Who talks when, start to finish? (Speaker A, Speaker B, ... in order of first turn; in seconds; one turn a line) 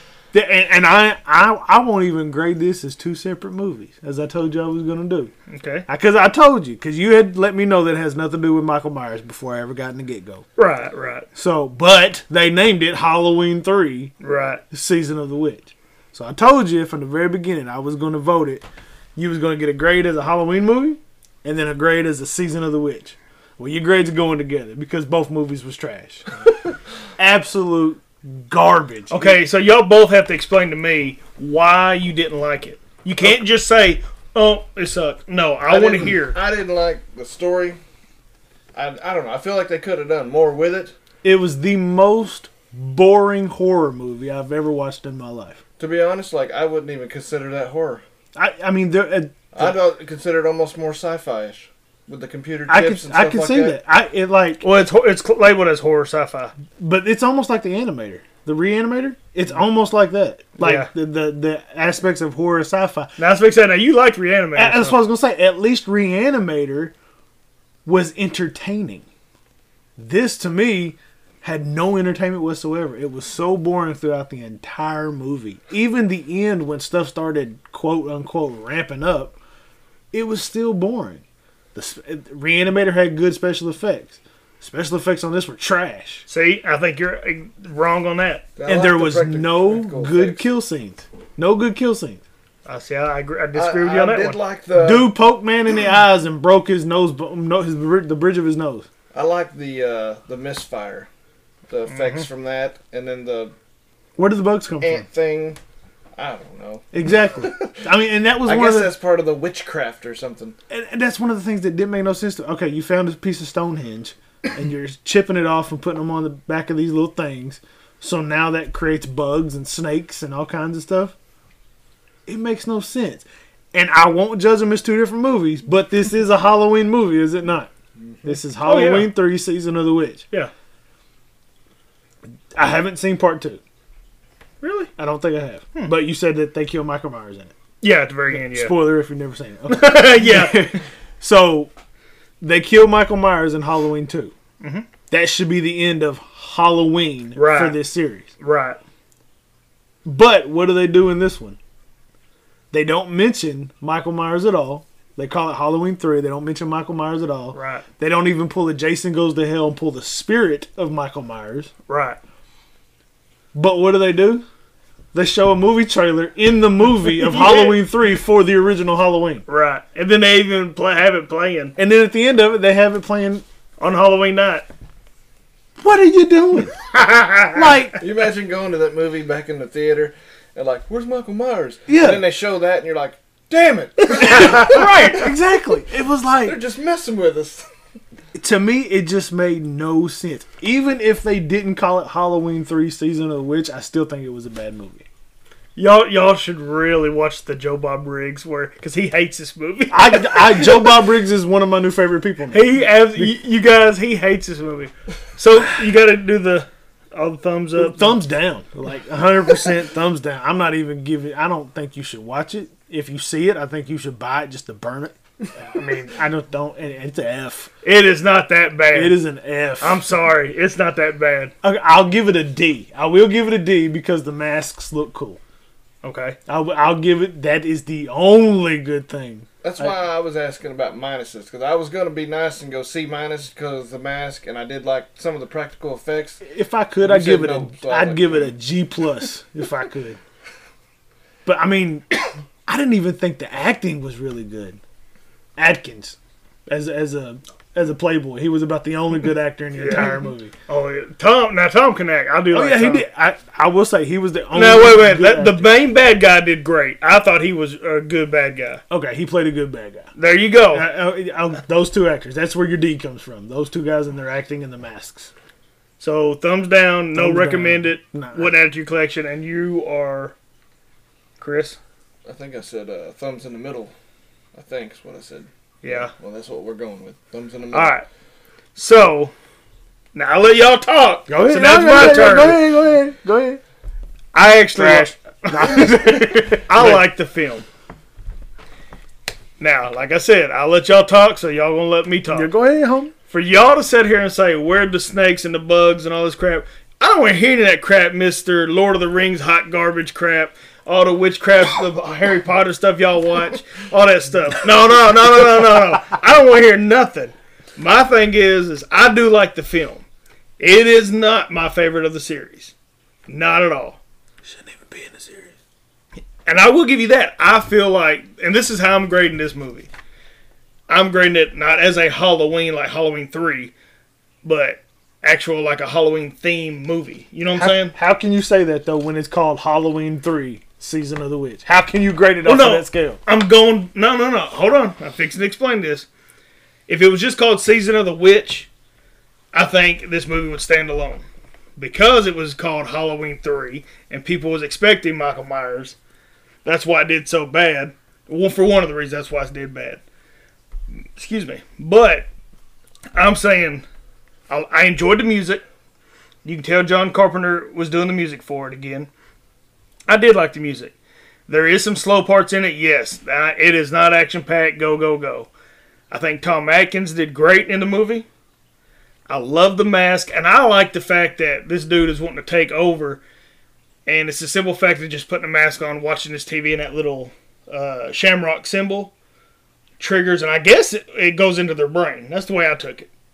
Speaker A: 0.3-5.3
Speaker B: 5.5-5.9
Speaker A: 5.9-10.4
Speaker B: 10.6-11.3
Speaker A: 11.3-14.1
Speaker B: 14.2-14.6
Speaker A: 14.7-26.3
Speaker A: 27.2-29.4
Speaker B: 29.1-36.4
Speaker C: 35.7-37.8
Speaker C: 38.7-41.0
Speaker A: 41.2-45.6
Speaker C: 45.8-48.0
Speaker A: 48.4-49.8
Speaker C: 49.5-53.8
Speaker A: 52.7-54.7
Speaker B: 54.6-56.5
Speaker A: 56.8-63.1
Speaker B: 60.6-60.9
Speaker B: 63.2-65.0
Speaker A: 64.5-66.9
Speaker A: 67.9-69.1
Speaker A: 70.0-79.4
Speaker A: 80.1-81.2
Speaker A: 81.8-86.3
Speaker B: 86.3-88.5
Speaker C: 88.6-90.5
Speaker A: 88.6-92.2
Speaker B: 92.7-94.4
Speaker C: 93.5-95.1
Speaker A: 94.8-98.9
Speaker C: 99.1-101.1
Speaker C: 101.7-103.5
Speaker B: 101.9-102.3
Speaker A: 104.2-105.1
Speaker C: 104.8-105.6
Speaker C: 106.2-110.6
Speaker A: 106.9-108.9
Speaker A: 110.7-121.2
Speaker A: 122.3-127.7
Speaker A: 128.2-130.2
Speaker B: 128.6-129.1
Speaker A: 132.5-133.6
Speaker B: 134.6-134.9
Speaker A: 135.0-137.5
Speaker B: 137.8-138.9
Speaker A: 138.3-141.7
Speaker B: 139.7-140.8
Speaker A: 142.4-144.3
Speaker B: 144.6-144.9
Speaker A: 145.1-148.3
Speaker B: 147.3-147.8
Speaker B: 148.4-148.8
Speaker A: 150.1-151.6
Speaker A: 152.7-161.7
Speaker B: 157.5-157.9
Speaker B: 161.9-162.2
Speaker A: 163.5-164.4
Speaker A: 165.1-169.4
Speaker B: 167.1-167.8
Speaker B: 169.5-171.8
Speaker A: 171.8-173.4
Speaker B: 173.8-174.7
Speaker A: 175.8-178.0
Speaker C: 178.0-185.3
Speaker A: 181.9-182.2
Speaker A: 184.2-186.6
Speaker C: 186.4-187.7
Speaker A: 188.3-195.1
Speaker B: 195.8-201.0
Speaker A: 199.9-203.3
Speaker B: 202.5-208.2
Speaker A: 207.8-217.7
Speaker B: 217.8-219.2
Speaker A: 218.9-220.0
Speaker B: 219.8-221.5
Speaker A: 221.6-225.4
Speaker B: 226.0-226.4
Speaker A: 226.5-229.9
Speaker C: 229.6-236.4
Speaker A: 236.4-240.2
Speaker C: 237.0-238.6
Speaker A: 241.5-244.8
Speaker A: 245.6-250.5
Speaker B: 249.8-253.1
Speaker A: 252.5-255.7
Speaker B: 254.5-258.8
Speaker A: 258.9-260.1
Speaker B: 260.2-260.9
Speaker A: 260.7-265.3
Speaker B: 266.0-270.4
Speaker A: 267.1-268.5
Speaker B: 271.4-271.8
Speaker C: 272.2-273.9
Speaker C: 274.5-278.0
Speaker B: 275.8-276.1
Speaker B: 277.7-278.1
Speaker B: 278.8-279.3
Speaker B: 280.1-282.8
Speaker A: 281.3-283.6
Speaker B: 284.3-287.7
Speaker A: 284.8-287.1
Speaker B: 289.6-292.5
Speaker A: 292.3-293.1
Speaker B: 293.3-310.1
Speaker B: 310.6-312.7
Speaker B: 313.3-314.0
Speaker A: 314.4-315.6
Speaker B: 316.5-319.9
Speaker B: 320.9-323.7
Speaker B: 324.4-327.9
Speaker A: 327.5-333.2
Speaker B: 332.4-336.1
Speaker B: 336.9-338.7
Speaker B: 339.5-341.2
Speaker B: 341.8-346.0
Speaker B: 346.6-350.0
Speaker B: 351.2-352.3
Speaker B: 353.1-353.9
Speaker B: 354.5-355.6
Speaker B: 356.4-359.1
Speaker B: 360.1-360.9
Speaker B: 361.5-365.5
Speaker B: 366.1-368.3
Speaker B: 369.3-373.2
Speaker B: 374.1-379.1
Speaker B: 380.0-383.1